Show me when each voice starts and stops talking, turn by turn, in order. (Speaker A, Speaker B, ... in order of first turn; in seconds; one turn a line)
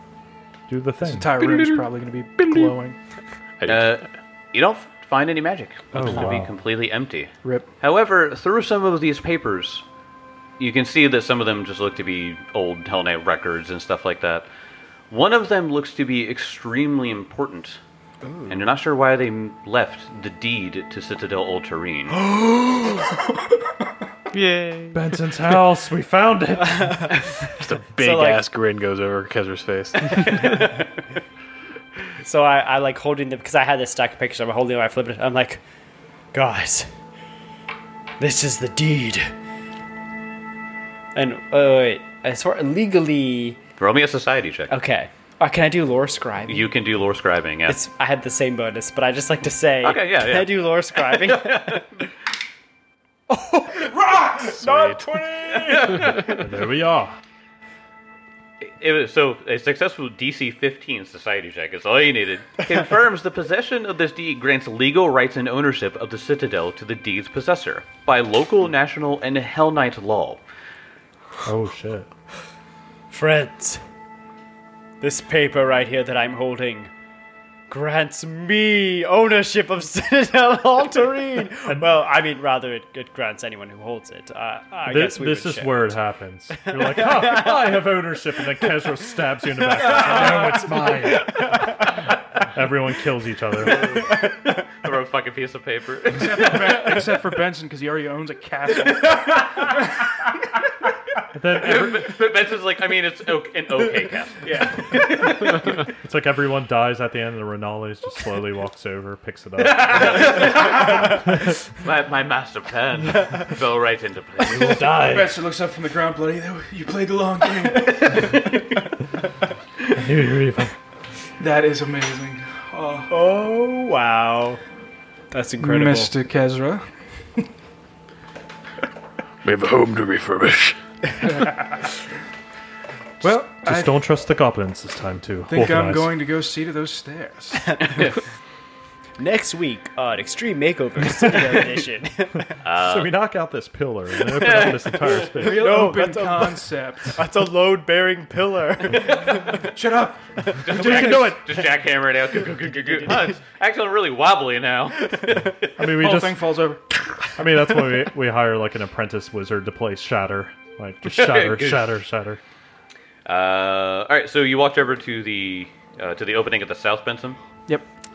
Speaker A: 0.7-1.3
Speaker B: 1.0-3.0
Speaker C: 1.4-1.9
Speaker C: 2.4-2.7
Speaker C: 3.6-3.9
Speaker D: 3.6-9.8
Speaker A: 5.9-6.5
Speaker D: 10.6-14.4
Speaker D: 15.1-17.8
Speaker E: 18.2-18.6
Speaker D: 18.5-22.2
Speaker C: 22.1-23.1
Speaker C: 24.3-25.0
Speaker A: 24.9-27.4
Speaker C: 27.6-30.7
Speaker E: 28.0-28.4
Speaker E: 30.2-30.9
Speaker E: 32.2-35.6
Speaker E: 36.3-36.9
Speaker E: 38.2-39.3
Speaker E: 41.1-43.6
Speaker D: 43.8-44.7
Speaker E: 44.7-46.7
Speaker D: 46.5-47.8
Speaker E: 47.7-51.9
Speaker D: 49.8-51.9
Speaker B: 53.3-56.0
Speaker C: 54.6-55.2
Speaker D: 55.9-56.2
Speaker A: 56.1-57.2
Speaker D: 58.6-70.4
Speaker A: 71.4-72.1
Speaker E: 73.1-73.8
Speaker E: 75.0-76.9
Speaker E: 77.7-85.9
Speaker A: 84.8-94.0
Speaker E: 86.7-87.6
Speaker E: 89.8-91.9
Speaker D: 93.7-94.1
Speaker E: 94.1-94.5
Speaker D: 94.7-97.2
Speaker B: 96.1-99.8
Speaker A: 101.3-102.1
Speaker D: 101.6-105.8
Speaker A: 106.0-110.5
Speaker D: 109.6-114.9
Speaker A: 114.5-115.4
Speaker B: 114.9-118.7
Speaker A: 120.0-120.8
Speaker B: 121.4-123.1
Speaker E: 123.1-124.6
Speaker E: 125.3-126.1
Speaker B: 125.6-127.5
Speaker C: 129.4-130.8
Speaker B: 131.3-131.7
Speaker B: 133.2-133.9
Speaker A: 133.2-136.1
Speaker B: 135.5-138.0
Speaker E: 139.2-142.5
Speaker D: 142.6-143.1
Speaker A: 142.8-145.7
Speaker D: 144.3-145.3
Speaker B: 145.3-147.2
Speaker E: 145.4-149.7
Speaker B: 149.4-151.4
Speaker E: 150.5-151.3
Speaker D: 150.6-156.0
Speaker E: 152.6-153.3
Speaker E: 155.1-155.5
Speaker A: 155.8-156.5
Speaker B: 155.8-156.8
Speaker A: 157.3-162.4
Speaker D: 161.0-162.0
Speaker D: 163.2-167.4